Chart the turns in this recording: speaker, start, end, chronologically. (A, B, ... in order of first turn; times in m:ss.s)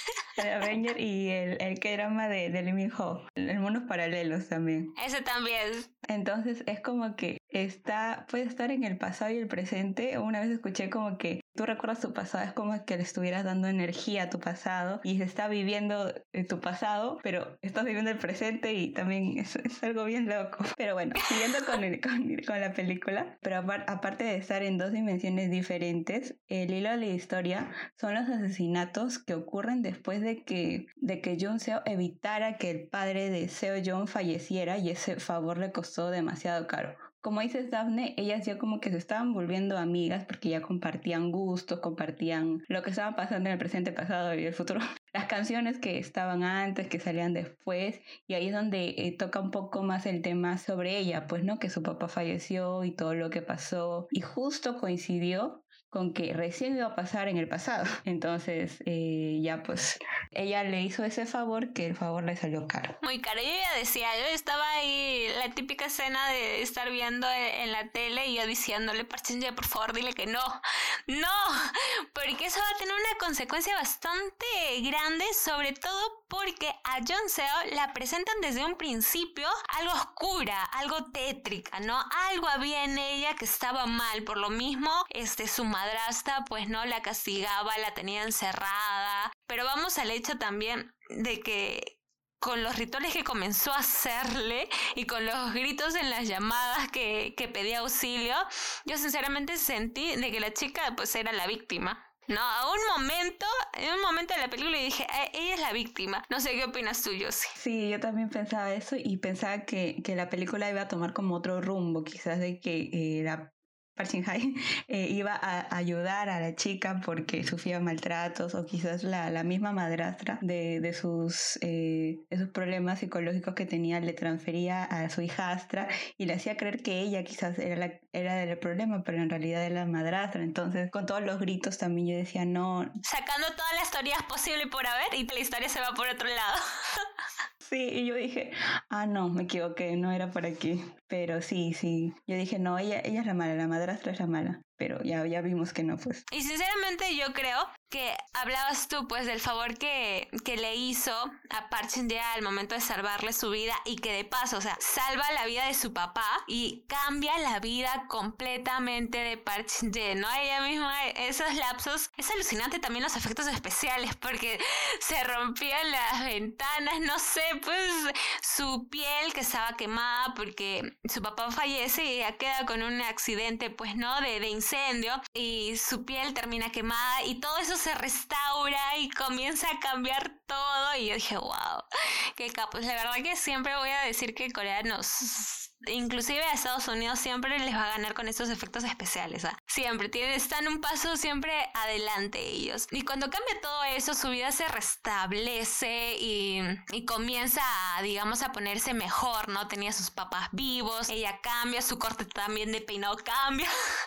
0:00.4-0:04.9 A
0:05.0-0:05.9 B
0:06.1-1:03.0 A
0:21.2-0:21.8 B
1:03.0-1:47.5 B
1:47.6-2:12.9 A
2:13.0-2:16.6 B
2:17.6-2:26.2 A
2:26.3-3:23.7 B